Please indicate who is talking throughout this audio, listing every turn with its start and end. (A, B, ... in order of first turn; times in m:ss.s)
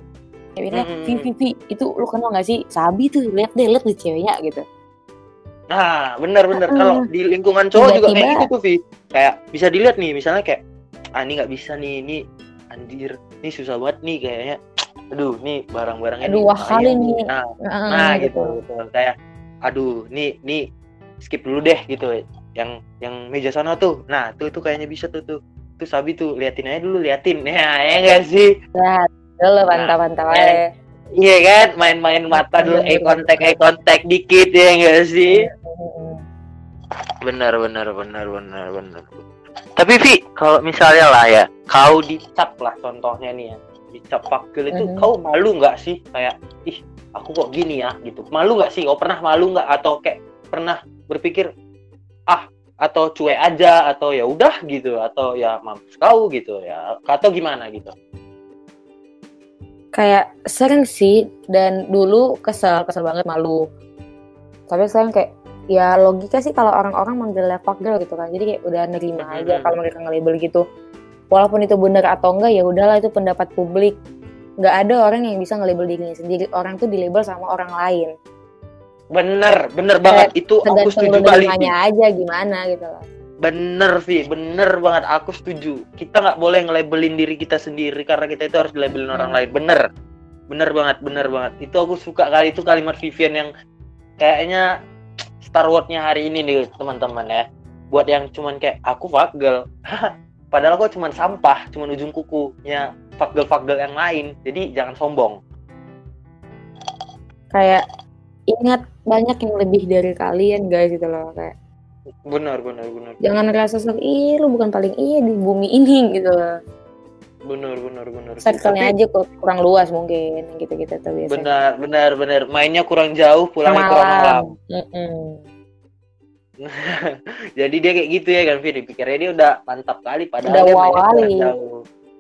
0:00.6-0:04.6 A
0:00.7-0:01.3 B
0:05.7-0:10.6 B
0:06.6-0:07.0 A
0:07.8-0:08.5 A
0:11.2-0:14.6 B
0:15.1-0:19.1 B
0:16.2-0:18.5 A
0:19.7-0:20.6 B
0:21.2-0:28.5 B
0:28.8-0:30.6 A
0:29.7-0:30.6 B
0:31.2-0:35.4 B
0:32.3-0:33.6 A
0:35.4-0:36.2 A
0:37.2-0:39.2 B
0:39.8-0:51.5 B
0:44.7-0:45.1 A
0:52.3-0:57.9 B
1:00.0-1:03.6 A
1:04.7-1:10.6 A
1:09.2-1:09.8 B
1:11.3-1:14.0 A
1:14.6-1:18.1 A
1:19.1-1:21.7 B
1:20.1-1:23.0 A
1:23.4-1:29.9 B
1:29.1-1:29.4 A
1:30.5-1:33.5 B
1:34.2-1:34.7 B
1:35.4-1:45.4 B
1:47.5-1:47.8 A
1:48.5-1:51.5 A
1:52.3-1:53.2 B
1:53.2-1:56.4 A
1:57.5-1:58.9 B
1:58.5-2:01.5 A
2:01.3-2:04.5 B
2:03.7-2:05.4 A
2:06.6-2:11.7 B
2:10.5-2:11.5 A